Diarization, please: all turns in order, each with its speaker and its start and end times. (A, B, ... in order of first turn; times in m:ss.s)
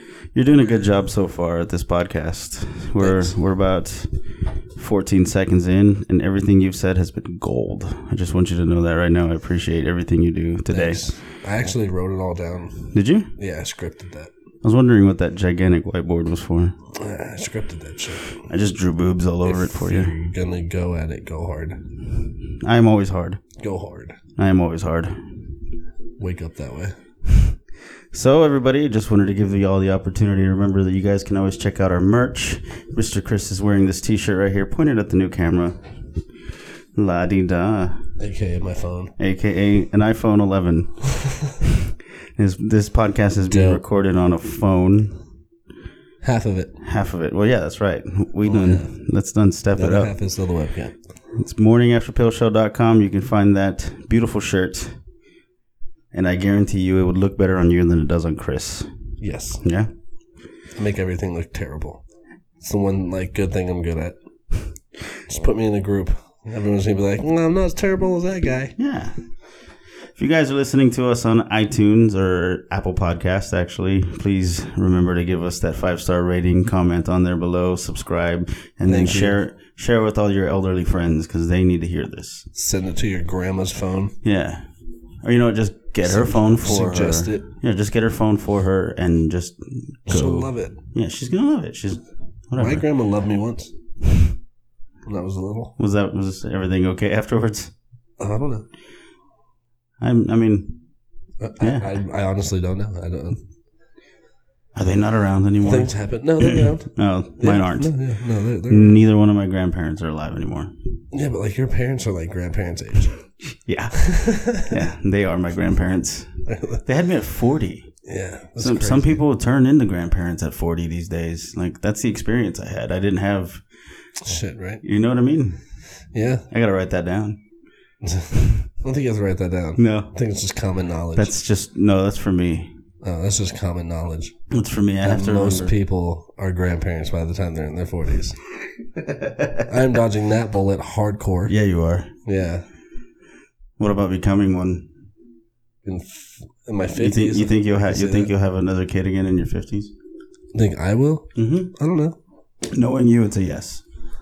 0:00.3-0:04.1 A
0:03.0-0:03.3 B
0:04.8-0:11.2 A
0:10.7-0:14.3 B
0:12.9-0:13.3 A
0:14.6-0:16.7 A
0:16.9-0:18.4 B
0:18.3-0:20.1 A
0:19.4-0:21.8 B
0:22.6-0:23.4 A
0:23.6-0:24.2 B
0:24.4-0:25.2 A
0:26.2-0:27.0 B
0:28.1-0:35.8 A
0:36.9-0:38.0 A
0:38.2-0:39.1 B
0:39.2-0:45.2 A
0:43.5-0:43.8 B
0:46.2-0:46.7 B
0:46.8-0:50.1 A
0:48.4-0:48.9 B
0:49.7-0:51.0 B
0:51.3-0:55.0 A
0:56.1-0:58.9 A
0:59.2-0:59.6 B
0:59.6-0:59.9 A
1:00.8-1:02.0 B
1:02.6-1:04.2 B
1:05.3-1:08.7 B
1:08.8-1:09.2 A
1:10.2-1:22.4 A
1:18.8-1:19.4 B
1:22.5-1:24.1 B
1:24.2-1:24.7 A
1:25.2-1:32.8 A
1:26.0-1:27.4 B
1:30.1-1:30.8 B
1:32.6-1:33.7 B
1:35.0-1:35.7 B
1:35.8-1:37.7 A
1:38.2-1:38.6 B
1:40.0-1:40.8 A
1:41.4-1:43.4 B
1:41.6-1:42.0 A
1:44.7-1:47.9 A
1:45.6-1:49.0 B
1:48.7-1:50.7 A
1:51.1-1:53.1 B
1:53.5-1:57.9 A
1:54.0-1:54.7 B
1:56.5-1:56.8 B
1:58.0-1:59.2 B
1:58.6-2:03.6 A
2:04.2-2:04.8 B
2:04.8-2:05.6 A
2:06.1-2:06.4 B
2:06.5-2:07.4 A
2:08.0-2:11.3 B
2:09.8-2:10.1 A
2:11.1-2:12.7 A
2:13.0-2:14.3 B
2:14.5-2:15.7 A
2:15.0-2:18.4 B
2:19.0-2:19.7 A
2:19.7-2:21.5 B
2:21.5-2:22.1 A
2:22.2-2:22.6 B
2:23.8-2:24.9 A
2:25.8-2:28.3 B
2:27.0-2:29.9 A
2:30.5-2:32.2 B
2:31.4-2:31.7 A
2:32.7-2:33.8 A